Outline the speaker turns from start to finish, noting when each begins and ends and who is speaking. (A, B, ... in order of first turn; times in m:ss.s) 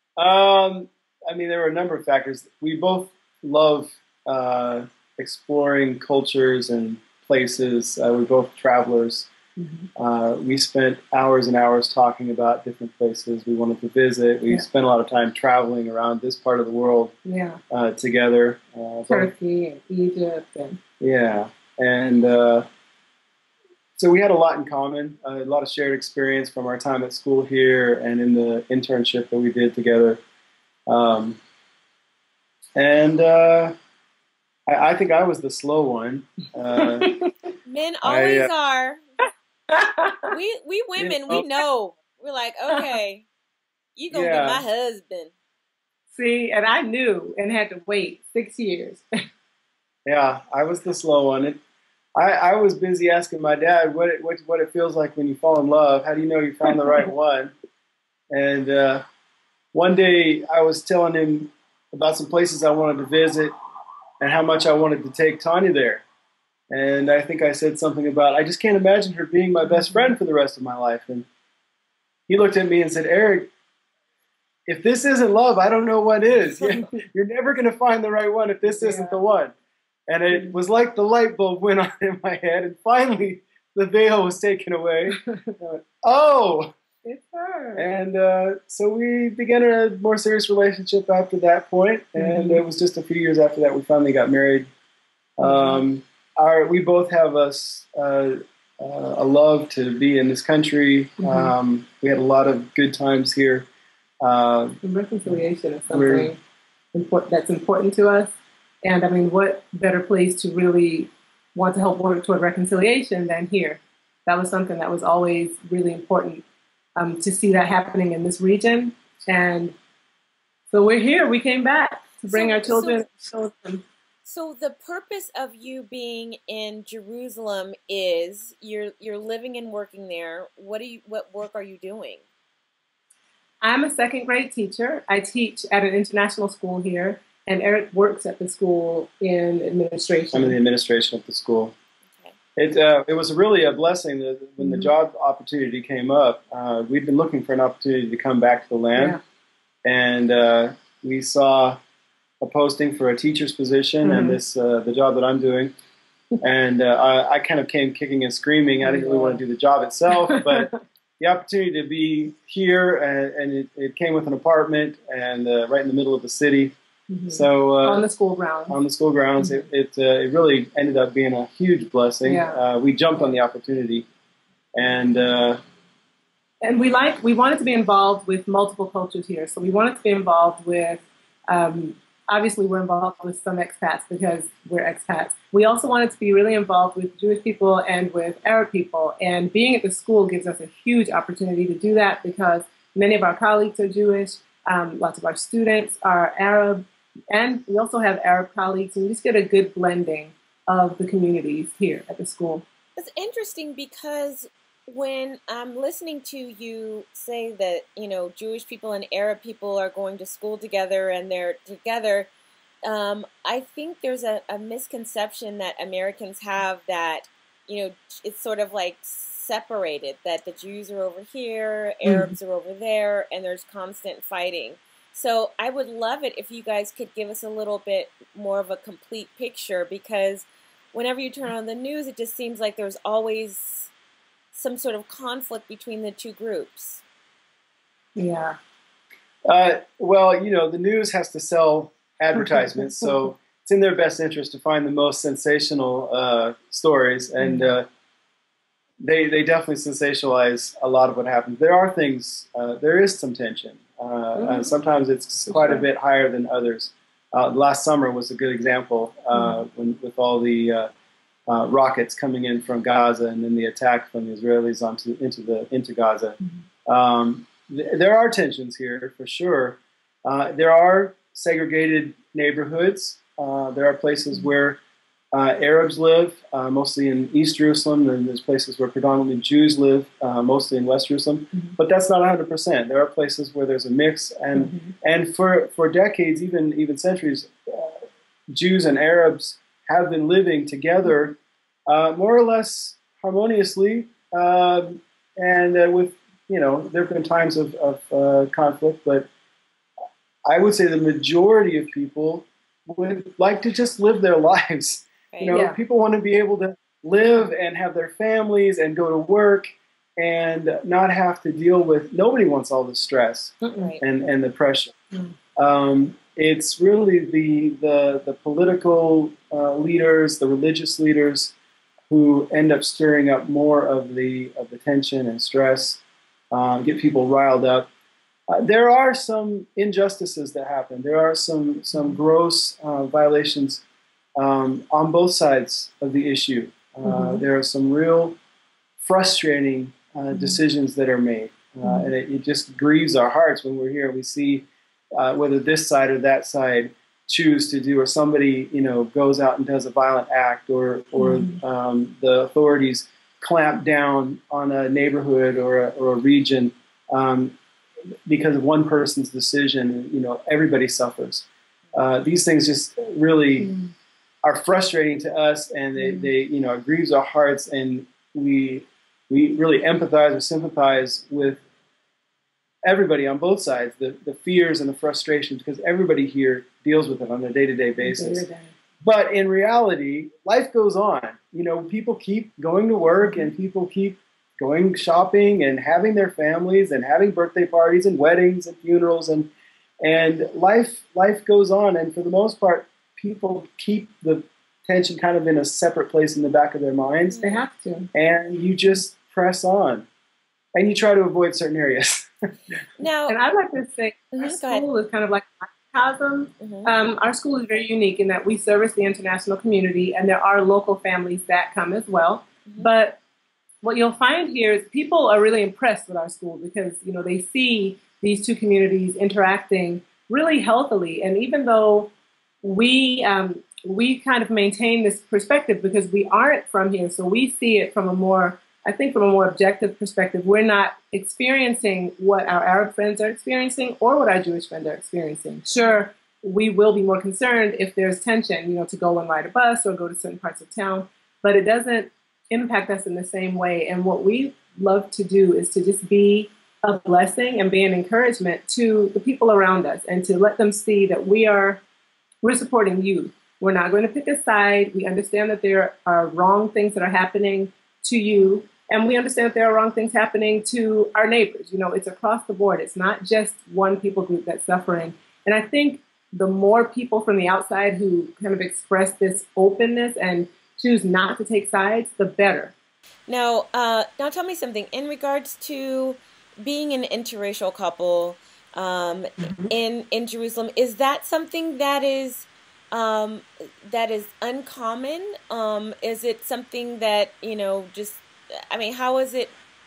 0:00.2-0:09.3 A
0:09.6-0:09.9 B
0:10.0-0:17.1 A
0:17.2-0:17.6 B
0:17.7-0:19.3 A
0:19.1-0:20.8 B
0:21.0-0:22.6 A
0:24.0-0:30.2 A
0:30.9-0:31.4 A
0:32.8-0:33.7 A
0:34.7-0:37.1 A
0:36.7-0:37.3 B
0:37.6-0:39.0 C
0:38.0-0:38.5 A
0:39.7-0:40.3 B
0:40.3-0:43.3 C
0:41.0-0:41.4 A
0:44.0-0:45.3 C
0:44.1-0:44.6 A
0:46.1-0:49.0 B
0:50.0-0:51.6 A
0:52.2-0:57.5 A
0:58.3-0:59.0 A
0:59.7-1:03.5 A
1:04.2-1:06.0 A
1:06.7-1:11.3 A
1:09.7-1:10.1 B
1:12.3-1:13.5 A
1:14.7-1:19.5 A
1:18.6-1:19.2 B
1:20.1-1:26.7 A
1:27.0-1:27.8 B
1:27.8-1:34.6 A
1:32.2-1:32.6 B
1:35.4-1:43.7 A
1:35.4-1:35.8 B
1:41.2-1:41.5 B
1:44.2-1:46.3 A
1:44.8-1:46.4 B
1:46.9-1:56.4 B
1:57.0-1:59.7 B
2:00.7-2:03.8 B
2:02.3-2:03.0 C
2:04.2-2:12.2 C
2:13.6-2:20.6 B
2:20.3-2:21.7 A
2:22.6-2:29.2 A
2:24.6-2:24.9 B
2:29.8-2:31.8 A
2:32.4-2:35.7 A
2:34.0-2:34.4 B
2:36.4-2:46.7 A
2:38.8-2:39.4 B
2:40.3-2:40.7 B
2:47.1-2:48.8 B
2:47.3-2:48.1 A
2:48.7-2:54.0 A
2:49.4-2:49.7 B
2:52.2-2:52.6 B
2:54.7-2:55.6 A
2:56.6-3:22.6 B
3:23.0-3:32.3 C
3:32.8-3:53.9 C
3:42.0-3:42.3 B
3:54.5-3:57.0 C
3:58.2-3:58.6 B
3:59.4-4:07.8 A
4:02.4-4:03.2 B
4:07.4-4:07.7 B
4:09.0-4:20.9 A
4:14.4-4:14.7 B
4:15.5-4:15.8 B
4:19.3-4:19.6 B
4:21.5-4:34.8 A
4:35.3-4:59.3 A
4:44.5-4:44.9 B
5:00.4-5:14.9 A
5:05.3-5:05.6 C
5:05.5-5:05.8 B
5:13.6-5:14.0 B
5:15.6-5:21.5 A
5:22.1-5:27.9 A
5:28.5-5:33.8 A
5:34.4-5:38.4 A
5:37.0-5:37.4 B
5:39.0-5:57.6 A
5:40.3-5:40.6 B
5:41.8-5:42.1 B
5:51.2-5:51.6 B
5:58.3-6:03.7 A
6:03.6-6:03.9 B
6:04.4-6:11.6 A
6:06.0-6:06.3 B
6:12.8-6:18.4 A
6:18.0-6:18.7 B
6:19.0-6:29.5 A
6:23.2-6:23.5 B
6:30.0-6:37.4 A
6:37.3-6:37.6 C
6:37.4-6:38.1 B
6:38.1-6:40.0 A
6:40.8-6:42.3 A
6:43.0-6:43.4 C
6:43.3-6:53.2 B
6:44.3-6:44.8 C
6:46.6-6:46.9 C
6:53.8-7:02.1 B
7:02.6-7:31.8 B
7:15.7-7:16.0 C
7:32.4-7:52.7 B
7:53.3-8:09.5 C
7:59.4-7:59.7 B